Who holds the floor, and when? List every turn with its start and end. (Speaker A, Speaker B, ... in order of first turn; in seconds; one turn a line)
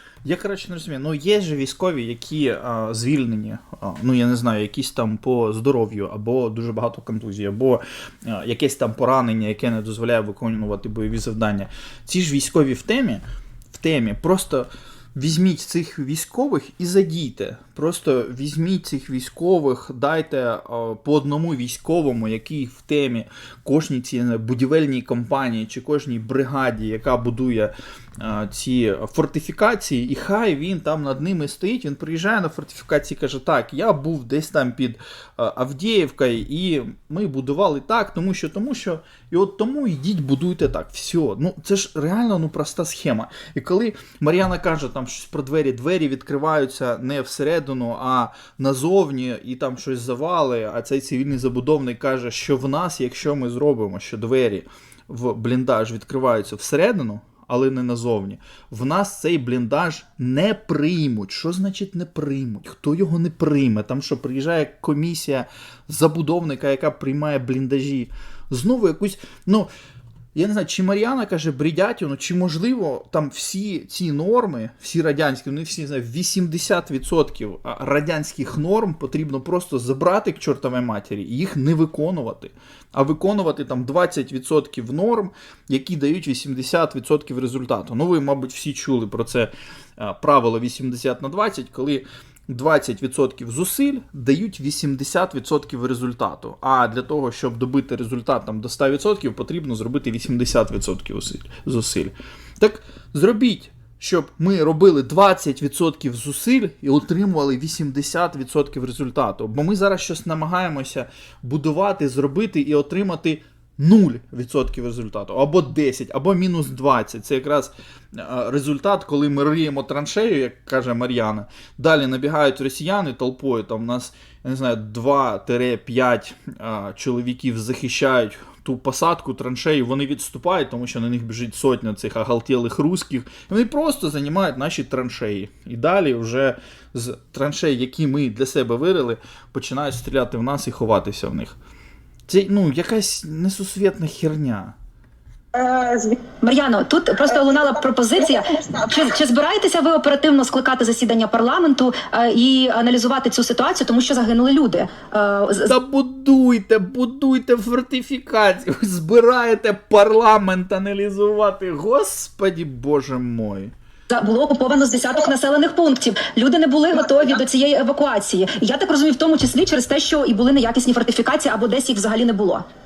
Speaker A: 0.2-69.7
Speaker A: 70.3-141.6
Speaker A: 142.3-144.8
Speaker B: 145.5-146.2
Speaker C: 146.4-155.7
Speaker B: 147.3-148.9
Speaker A: 155.7-163.7
Speaker C: 164.1-172.7
Speaker B: 167.0-167.4